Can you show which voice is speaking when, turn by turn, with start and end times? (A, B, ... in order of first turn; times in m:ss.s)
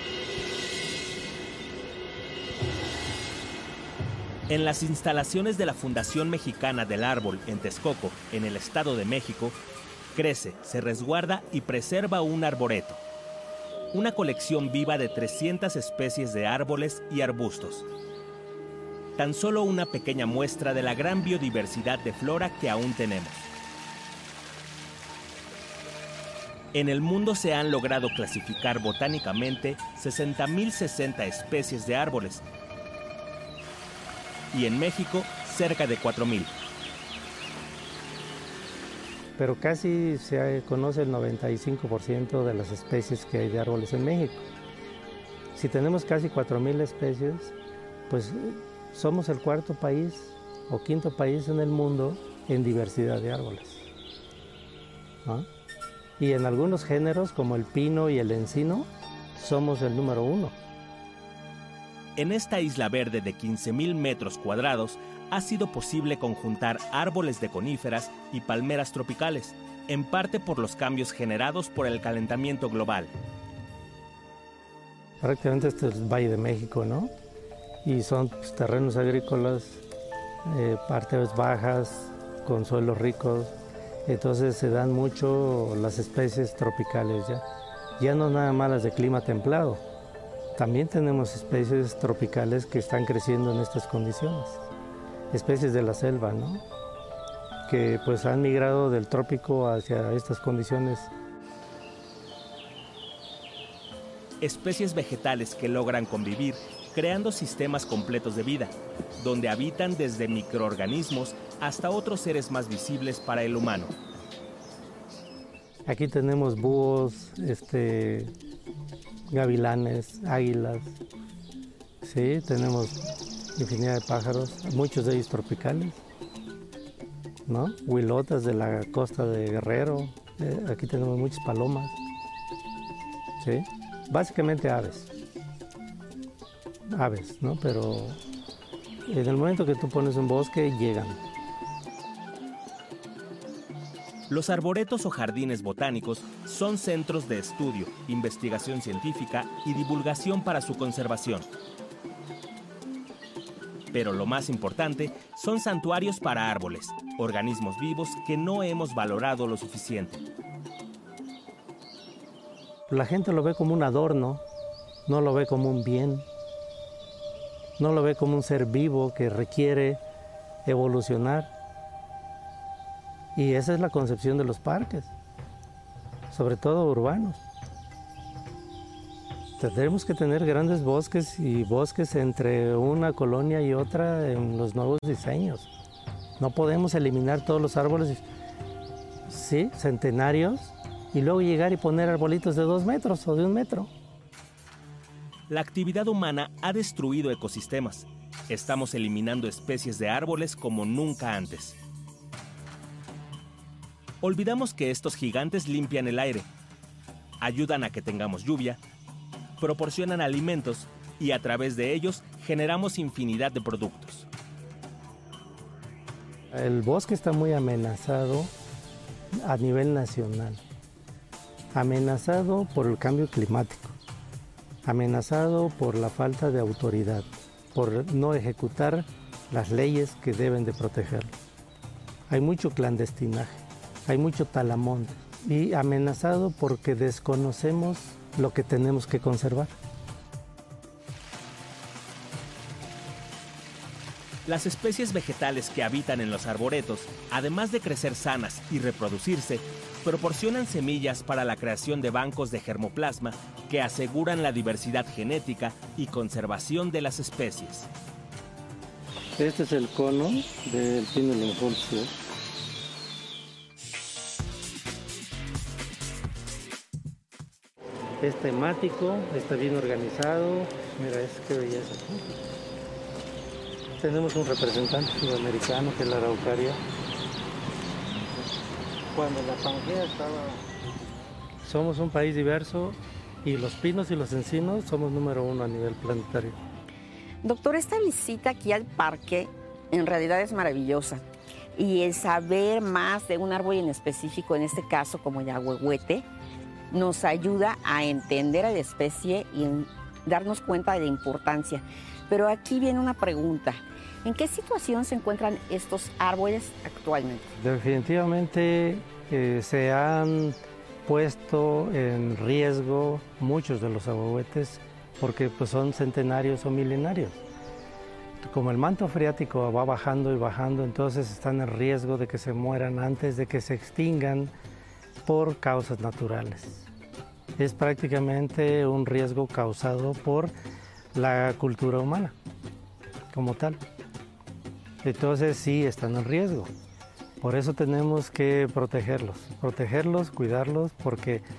0:04.5-0:09.6 A
0:10.1-0:13.0 A
0:13.9-0:17.9 A
0:19.2-0:23.5 A
0:26.7-0:32.4 A
0:34.5-0:36.5 A
0:39.4-0:44.4 B
0:45.5-0:47.6 B
0:48.1-0:53.9 B
0:56.2-1:00.6 B
1:02.2-1:13.1 A
1:15.2-1:17.1 B
1:17.8-1:19.8 B
1:20.4-1:27.4 B
1:28.0-1:29.8 B
1:30.6-1:34.6 B
1:35.3-1:36.6 B
1:37.6-1:41.1 B
1:44.4-1:54.0 A
1:55.8-1:58.3 B
1:59.3-2:01.0 B
2:02.0-2:03.0 B
2:03.6-2:06.0 B
2:07.4-2:12.0 B
2:13.4-2:15.1 B
2:16.9-2:18.2 B
2:19.1-2:21.2 B
2:24.3-2:31.5 A
2:33.9-2:40.2 A
2:42.9-2:44.4 B
2:45.0-2:46.3 B
2:47.8-2:50.0 B
2:50.6-2:51.5 B
2:53.3-2:55.1 B
2:56.3-2:57.4 B
2:59.6-3:05.7 B
3:06.4-3:08.2 B
3:09.3-3:13.9 B
3:15.5-3:21.8 A
3:24.2-3:26.5 A
3:27.4-3:28.8 A
3:29.6-3:34.3 A
3:36.5-3:38.5 B
3:39.4-3:40.6 B
3:41.7-3:44.0 B
3:44.8-3:51.3 B
3:52.3-3:59.7 B
4:04.4-4:17.9 A
4:19.4-4:22.2 B
4:28.2-4:32.4 B
4:34.0-4:36.8 B
4:39.1-4:46.6 B
4:47.4-4:51.2 C
4:51.8-4:56.2 C
4:56.9-5:07.5 C
5:07.6-5:17.4 B
5:18.4-5:24.5 B
5:25.2-5:26.9 B
5:27.6-5:30.5 B
5:31.1-5:32.4 B
5:33.3-5:33.8 B
5:35.0-5:36.7 B
5:37.4-5:41.4 B